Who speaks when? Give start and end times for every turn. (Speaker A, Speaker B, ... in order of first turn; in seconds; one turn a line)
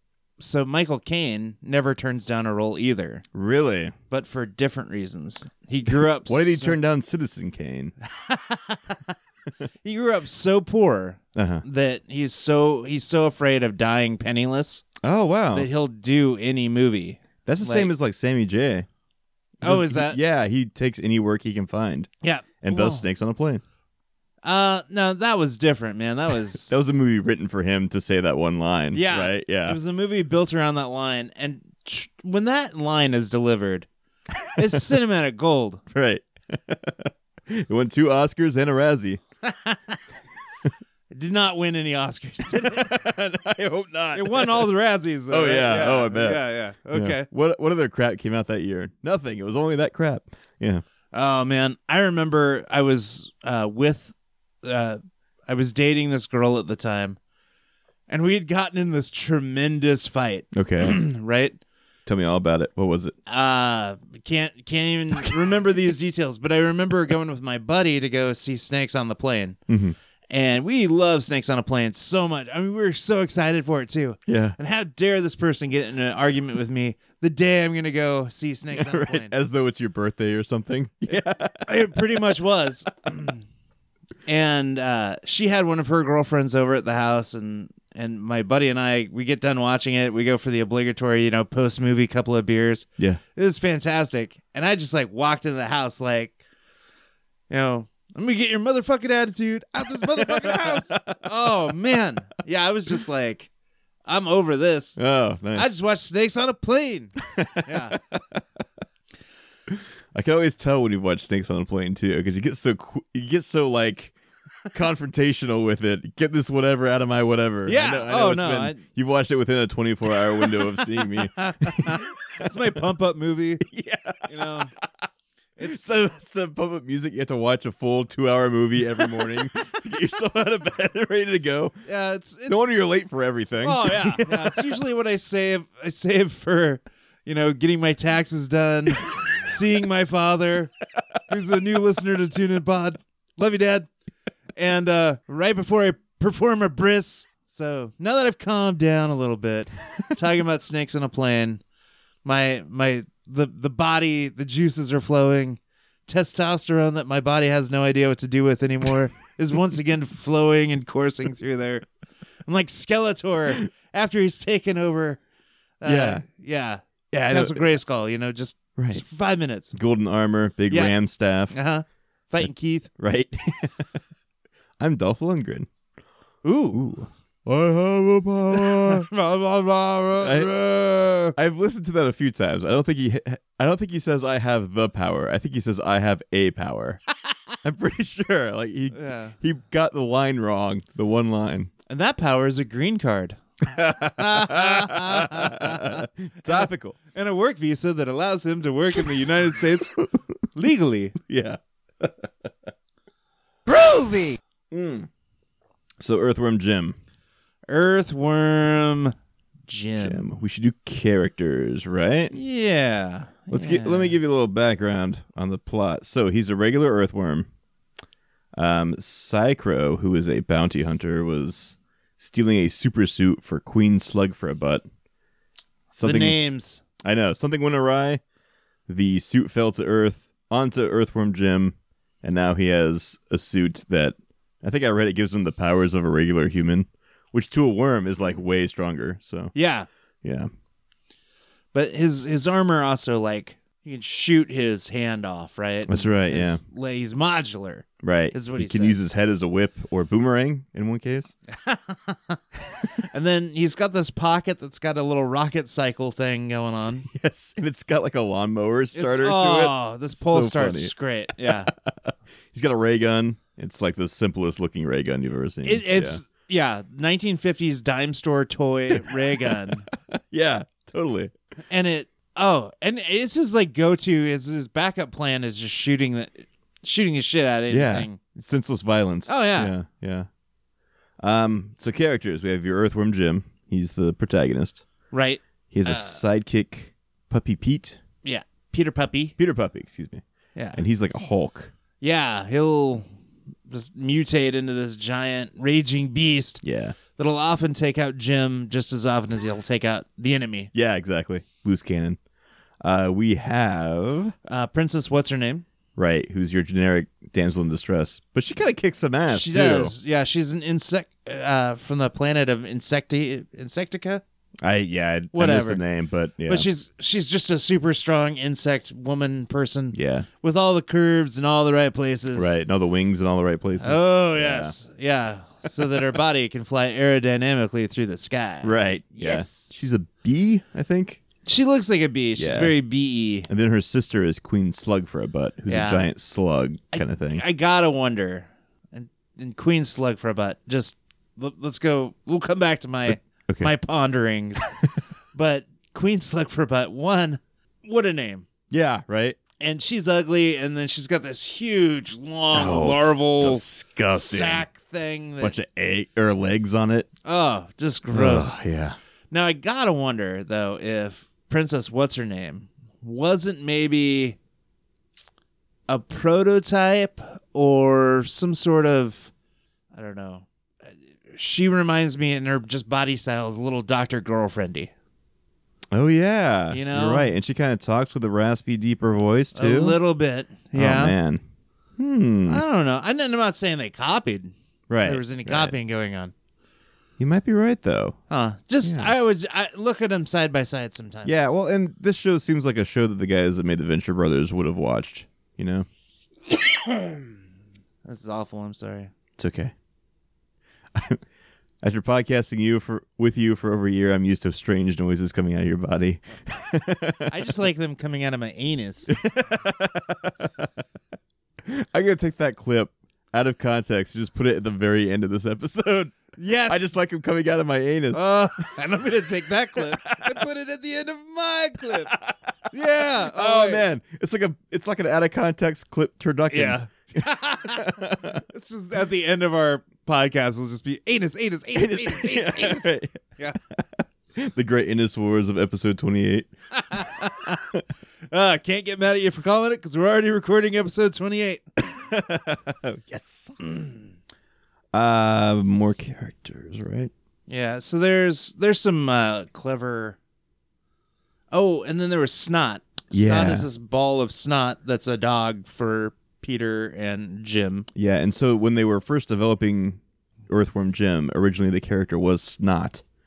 Speaker A: 0.4-3.2
Speaker B: 3.3-3.9
Speaker A: 4.1-6.8
Speaker B: 6.1-7.9
Speaker A: 8.0-9.1
Speaker A: 9.8-14.8
Speaker B: 11.3-11.6
Speaker B: 15.0-15.7
Speaker A: 15.5-17.9
Speaker B: 17.4-18.9
Speaker A: 19.6-20.2
Speaker B: 19.6-22.1
Speaker A: 22.2-23.0
Speaker B: 22.6-23.6
Speaker A: 24.4-26.7
Speaker B: 26.6-29.8
Speaker A: 28.9-33.9
Speaker A: 34.5-35.8
Speaker B: 35.9-39.2
Speaker A: 39.4-40.0
Speaker A: 41.1-43.0
Speaker B: 42.6-44.7
Speaker A: 44.1-47.3
Speaker B: 45.3-50.8
Speaker A: 51.1-57.2
Speaker A: 58.1-61.6
Speaker B: 60.5-61.0
Speaker B: 62.0-63.1
Speaker A: 63.2-69.6
Speaker B: 69.7-70.0
Speaker A: 70.3-79.3
Speaker B: 74.3-74.5
Speaker B: 78.7-82.2
Speaker A: 81.7-83.4
Speaker A: 84.2-96.4
Speaker A: 97.5-103.5
Speaker B: 100.1-101.2
Speaker A: 104.0-105.0
Speaker B: 105.0-105.8
Speaker A: 105.5-108.0
Speaker B: 107.2-108.4
Speaker B: 109.7-114.1
Speaker B: 114.7-122.5
Speaker A: 117.6-118.8
Speaker A: 120.2-123.6
Speaker B: 123.6-124.8
Speaker A: 124.3-124.7
Speaker B: 125.6-131.8
Speaker A: 129.0-129.3
Speaker A: 131.8-132.6
Speaker B: 132.5-134.7
Speaker A: 133.6-140.7
Speaker A: 141.3-143.9
Speaker A: 144.6-151.6
Speaker A: 152.2-161.8
Speaker A: 162.4-165.2
Speaker A: 165.8-169.7
Speaker B: 165.8-166.2
Speaker B: 167.1-167.6
Speaker B: 168.8-169.0
Speaker B: 169.7-171.6
Speaker A: 170.7-170.9
Speaker A: 171.5-172.9
Speaker B: 173.0-174.0
Speaker B: 174.8-175.7
Speaker A: 176.4-176.8
Speaker B: 176.7-179.1
Speaker A: 178.5-181.3
Speaker B: 180.2-180.6
Speaker B: 181.3-187.0
Speaker B: 187.6-191.7
Speaker A: 188.9-189.3
Speaker A: 191.9-193.4
Speaker B: 193.6-197.0
Speaker A: 194.2-199.9
Speaker B: 200.0-200.2
Speaker A: 200.5-201.1
Speaker B: 201.2-202.3
Speaker A: 203.7-204.4
Speaker B: 204.7-205.1
Speaker B: 206.0-207.0
Speaker A: 207.7-209.1
Speaker A: 209.7-210.2
Speaker B: 210.0-212.3
Speaker A: 212.3-214.2
Speaker B: 213.5-217.5
Speaker B: 218.5-224.8
Speaker B: 225.9-226.4
Speaker A: 226.0-226.8
Speaker B: 227.0-228.2
Speaker B: 228.9-239.5
Speaker A: 239.5-239.9
Speaker B: 240.2-240.5
Speaker A: 241.7-249.0
Speaker B: 245.9-246.6
Speaker B: 248.0-251.3
Speaker A: 251.5-252.4
Speaker A: 253.0-257.1
Speaker B: 257.1-266.2
Speaker A: 258.9-261.7
Speaker A: 265.6-269.9
Speaker B: 268.9-271.3
Speaker A: 271.7-278.2
Speaker B: 277.7-280.3
Speaker A: 279.3-279.7
Speaker B: 281.2-284.8
Speaker A: 285.1-286.2
Speaker B: 285.7-288.0
Speaker A: 288.2-289.4
Speaker B: 289.4-290.2
Speaker A: 290.5-290.8
Speaker B: 290.7-291.7
Speaker A: 292.0-293.1
Speaker A: 293.7-296.6
Speaker B: 296.6-297.0
Speaker A: 297.1-300.7
Speaker B: 300.7-302.2
Speaker B: 302.8-304.3
Speaker A: 304.4-305.6
Speaker B: 305.9-309.9
Speaker A: 309.3-314.2
Speaker B: 314.6-316.7
Speaker A: 315.3-315.8
Speaker A: 316.4-322.5
Speaker B: 319.9-320.3
Speaker B: 322.3-324.8
Speaker A: 323.8-329.8
Speaker B: 328.6-331.2
Speaker A: 331.4-333.5
Speaker B: 332.4-332.8
Speaker B: 333.5-337.4
Speaker A: 335.7-336.1
Speaker A: 336.9-344.6
Speaker B: 343.1-343.7
Speaker A: 345.3-348.4
Speaker B: 348.7-349.4
Speaker A: 349.6-355.6
Speaker B: 352.5-354.6
Speaker B: 355.4-357.1
Speaker A: 357.2-358.6
Speaker B: 358.1-359.0
Speaker A: 359.3-364.4
Speaker A: 365.9-369.3
Speaker A: 369.9-374.9
Speaker B: 375.9-380.0
Speaker A: 376.7-377.3
Speaker A: 379.5-381.1
Speaker B: 380.7-381.4
Speaker B: 382.0-382.6
Speaker A: 382.5-386.3
Speaker B: 384.9-385.7
Speaker B: 387.2-388.2
Speaker A: 388.3-391.3
Speaker B: 388.8-389.1
Speaker B: 391.2-395.9
Speaker A: 396.7-397.3
Speaker A: 398.0-399.1
Speaker B: 399.4-399.7
Speaker B: 400.9-401.2
Speaker B: 401.8-407.3
Speaker A: 407.3-409.1
Speaker B: 409.1-410.5
Speaker B: 411.6-418.8
Speaker A: 416.4-416.9
Speaker A: 418.1-422.1
Speaker B: 420.0-420.3
Speaker A: 422.7-423.8
Speaker B: 423.2-428.4
Speaker A: 426.5-433.6
Speaker B: 431.7-436.5
Speaker A: 436.7-437.6
Speaker A: 438.3-441.6
Speaker B: 441.8-444.0
Speaker B: 444.9-447.1
Speaker A: 447.5-450.2
Speaker A: 451.5-457.9
Speaker B: 453.1-453.7
Speaker B: 457.9-463.0